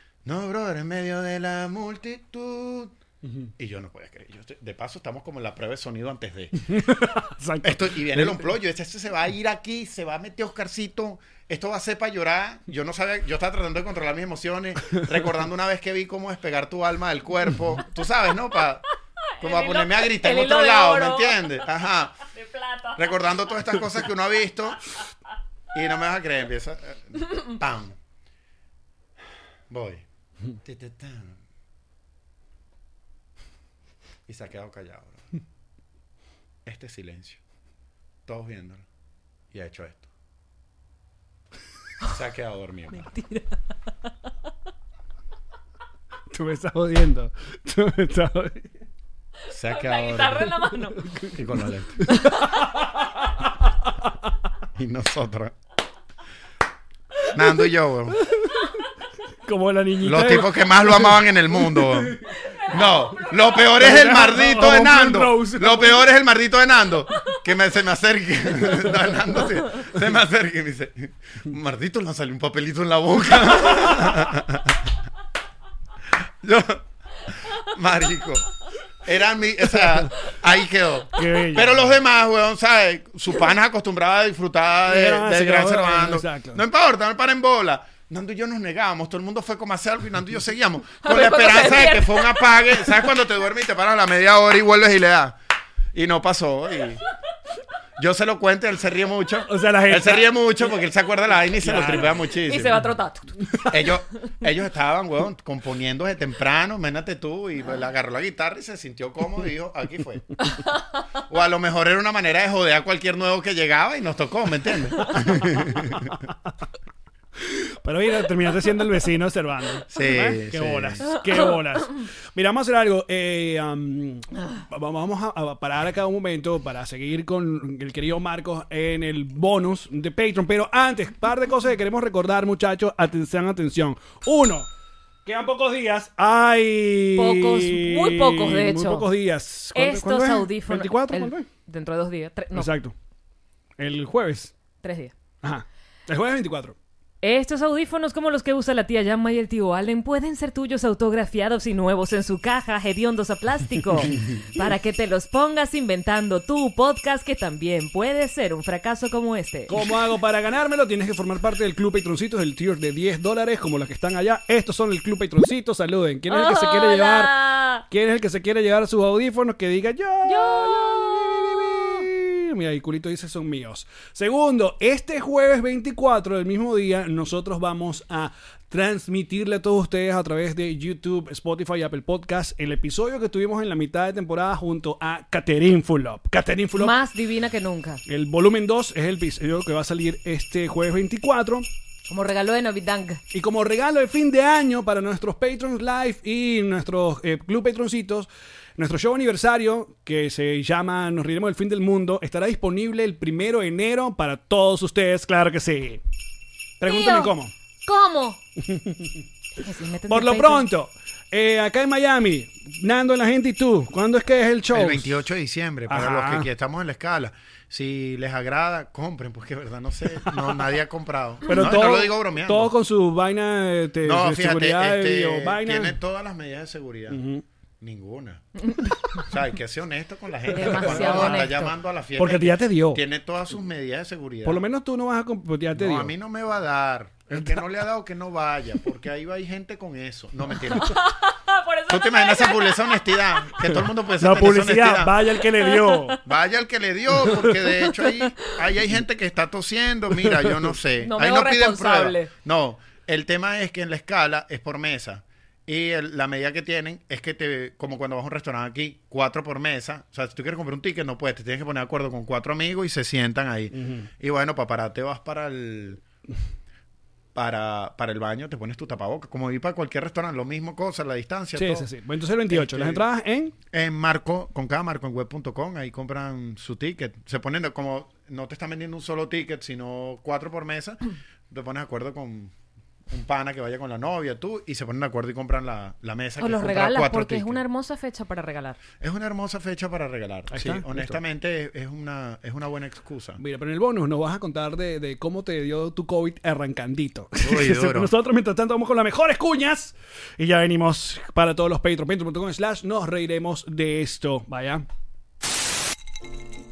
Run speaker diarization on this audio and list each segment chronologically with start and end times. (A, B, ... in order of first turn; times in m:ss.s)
0:00.2-0:03.0 A
0:03.2-0:03.5 B
0:03.6-0:06.8 A
0:06.7-0:08.4 B
0:07.6-0:18.8 A
0:19.4-0:21.6 C
0:19.4-0:22.2 A
0:22.3-0:23.1 C
0:23.0-0:24.8 A
0:25.7-0:28.0 A
0:29.7-0:30.0 A
0:30.6-0:31.4 A
0:34.3-0:35.3 A
0:36.6-0:37.4 A
0:38.3-0:38.8 A
0:39.5-0:40.1 A
0:42.0-0:43.1 A
0:42.9-0:43.6 C
0:46.3-0:48.7 B
0:49.5-0:50.5 A
0:49.7-0:51.0 C
0:51.1-0:51.4 B
0:51.3-0:52.0 A
0:52.0-0:53.3 B
0:54.8-0:55.6 A
0:57.3-0:58.2 A
0:58.2-0:58.7 B
0:59.5-1:01.1 B
1:00.0-1:02.2 A
1:01.8-1:02.2 B
1:02.7-1:14.8 A
1:03.8-1:06.0 B
1:16.4-1:16.8 A
1:17.5-1:18.5 A
1:19.0-1:35.4 A
1:21.2-1:21.9 B
1:24.9-1:26.6 B
1:31.0-1:32.6 C
1:35.9-1:37.0 A
1:38.0-1:42.8 A
1:39.5-1:40.3 B
1:41.6-1:42.2 B
1:42.5-1:43.4 C
1:43.7-1:50.2 A
1:51.3-1:56.1 A
1:57.4-2:14.7 B
1:59.9-2:01.1 A
2:15.2-2:21.5 B
2:17.2-2:19.1 C
2:19.7-2:22.7 C
2:22.5-2:23.0 B
2:23.8-2:24.5 B
2:24.8-2:25.1 C
2:25.4-2:26.8 B
2:27.2-2:39.8 C
2:39.7-3:07.0 B
2:46.3-2:47.8 C
2:50.2-2:51.2 C
3:06.8-3:08.0 C
3:08.1-3:11.7 B
3:12.1-3:13.2 C
3:13.3-3:26.0 B
3:26.8-3:27.5 B
3:26.8-3:27.3 C
3:27.8-3:28.4 C
3:28.6-3:29.2 B
3:29.6-3:30.7 C
3:30.1-3:35.1 B
3:34.7-3:42.7 A
3:35.9-3:36.5 B
3:41.5-3:46.0 B
3:44.0-3:47.2 A
3:47.1-3:47.4 B
3:47.8-3:48.5 A
3:48.7-3:49.2 C
3:49.2-3:54.6 A
3:50.5-3:51.7 C
3:50.8-3:51.5 B
3:52.2-3:53.0 B
3:54.4-3:56.1 B
3:55.8-4:01.0 A
4:00.8-4:03.5 C
4:01.9-4:05.2 A
4:04.2-4:06.2 B
4:05.6-4:06.1 C
4:06.2-4:26.0 A
4:11.0-4:12.3 C
4:23.7-4:24.1 B
4:27.4-4:31.9 A
4:31.6-4:33.5 B
4:32.5-4:33.0 A
4:33.7-4:42.5 A
4:43.1-4:47.6 A
4:46.4-4:48.8 C
4:49.0-4:53.4 A
4:50.5-4:51.2 B
4:53.4-5:04.8 B
4:57.4-4:58.1 A